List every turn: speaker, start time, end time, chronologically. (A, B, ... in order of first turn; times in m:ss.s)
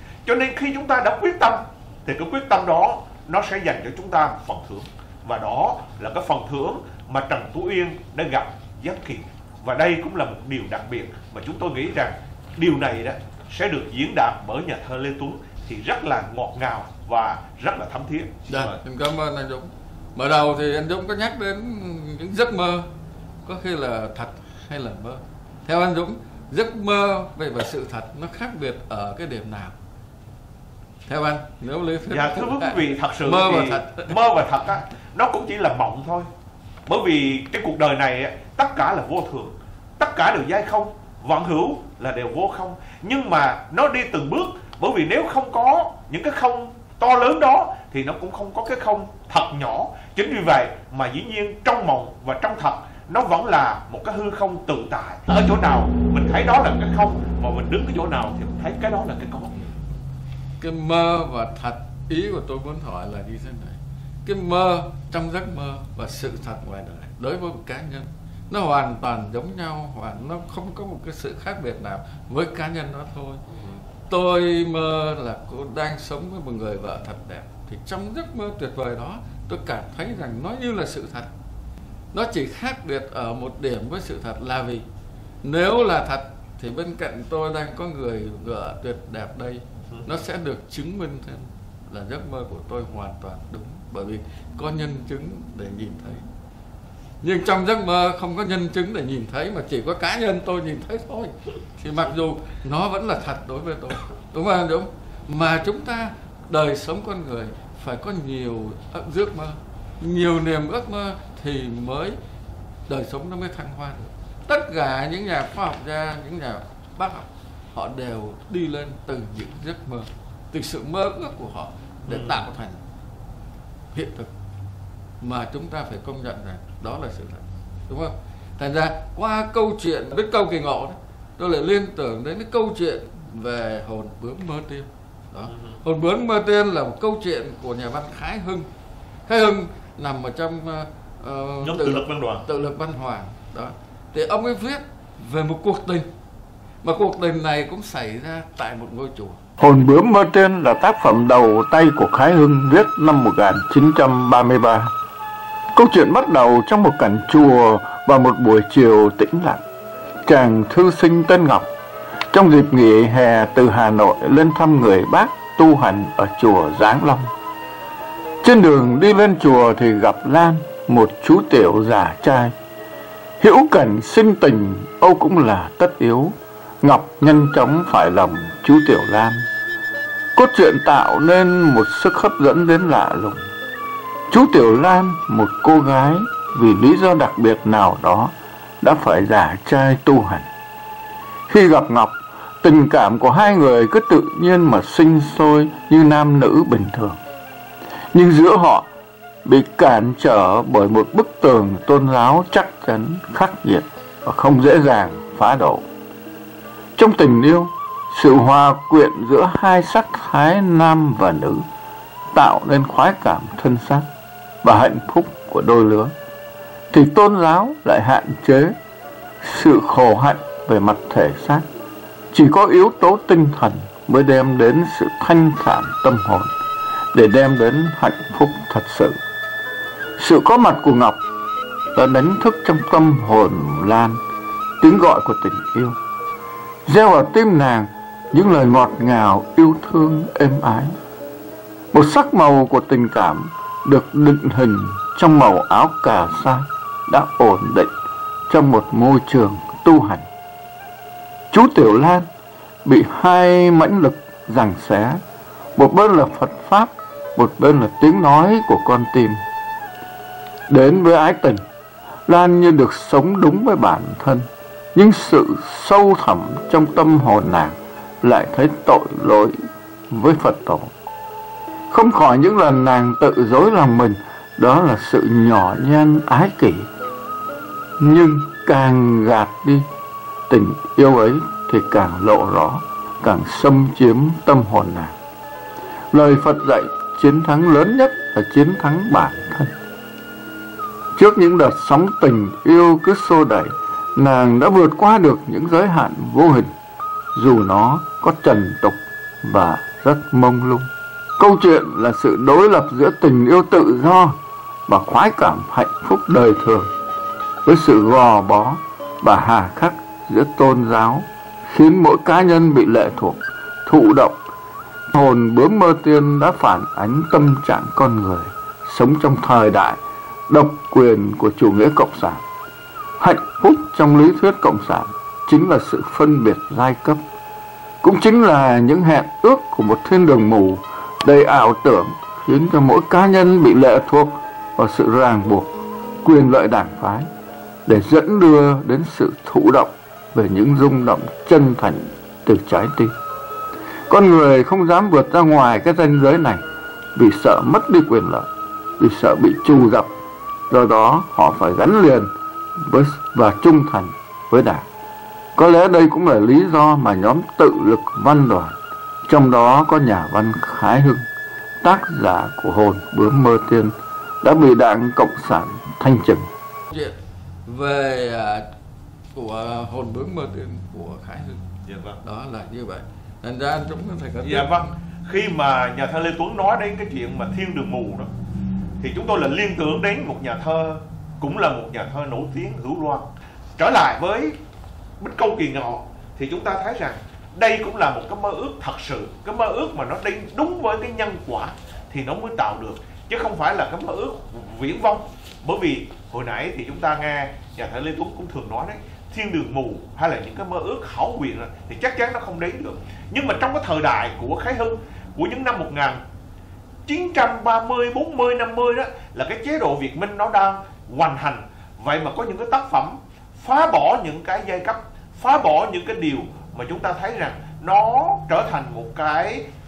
0:00.2-0:18.8 A
0:18.5-0:22.9 B
0:23.4-0:29.8 B
0:31.1-0:34.1 B
0:32.1-0:36.3 A
0:36.8-0:59.6 A
1:00.6-1:13.4 B
1:13.5-1:13.8 A
1:14.1-1:21.3 B
1:22.1-1:24.8 B
1:25.4-1:36.2 B
1:37.2-1:52.2 B
1:52.9-2:02.8 B
2:02.1-2:02.4 A
2:03.9-2:04.3 B
2:05.2-2:18.7 B
2:15.5-2:15.8 A
2:19.3-2:26.1 B
2:21.6-2:22.4 A
2:26.8-2:29.4 B
2:29.6-2:34.9 C
2:35.7-2:39.6 C
2:40.2-2:41.7 C
2:42.3-2:47.3 C
2:48.4-2:52.5 C
2:53.4-2:59.4 C
3:00.3-3:03.4 C
3:04.3-3:10.5 C
3:11.5-3:17.2 C
3:18.1-3:18.9 C
3:19.4-3:25.8 C
3:27.0-3:31.6 C
3:32.3-3:34.1 C
3:34.6-3:36.1 C
3:36.9-3:38.8 C
3:39.4-3:41.6 C
3:42.3-3:46.5 C
3:47.1-3:49.2 C
3:50.2-3:51.2 C
3:51.9-3:54.2 C
3:54.8-3:56.0 C
3:56.8-4:01.0 C
4:01.9-4:07.9 C
4:08.5-4:10.2 C
4:11.5-4:12.3 C
4:12.8-4:15.2 C
4:15.8-4:19.4 C
4:20.7-4:21.6 C
4:22.3-4:29.6 C
4:30.1-4:30.9 C
4:31.9-4:36.9 C
4:38.0-4:39.8 C
4:40.5-4:45.2 C
4:46.1-4:49.7 C
4:51.1-4:56.7 C
4:57.3-5:06.9 C
5:07.6-5:14.4 C
5:15.1-5:22.4 C
5:23.2-5:27.2 C
5:28.0-5:37.3 C
5:37.8-5:43.1 C
5:44.1-5:48.5 C
5:49.0-5:50.1 C
5:50.7-5:54.9 C
5:55.5-6:01.3 C
6:01.8-6:06.5 C
6:06.9-6:08.7 B
6:09.3-6:11.6 B
6:11.8-6:12.2 A
6:12.2-6:14.9 B
6:14.4-6:18.3 A
6:19.0-6:23.3 A
6:23.8-6:24.6 A
6:25.2-6:46.2 A
6:47.0-6:59.6 A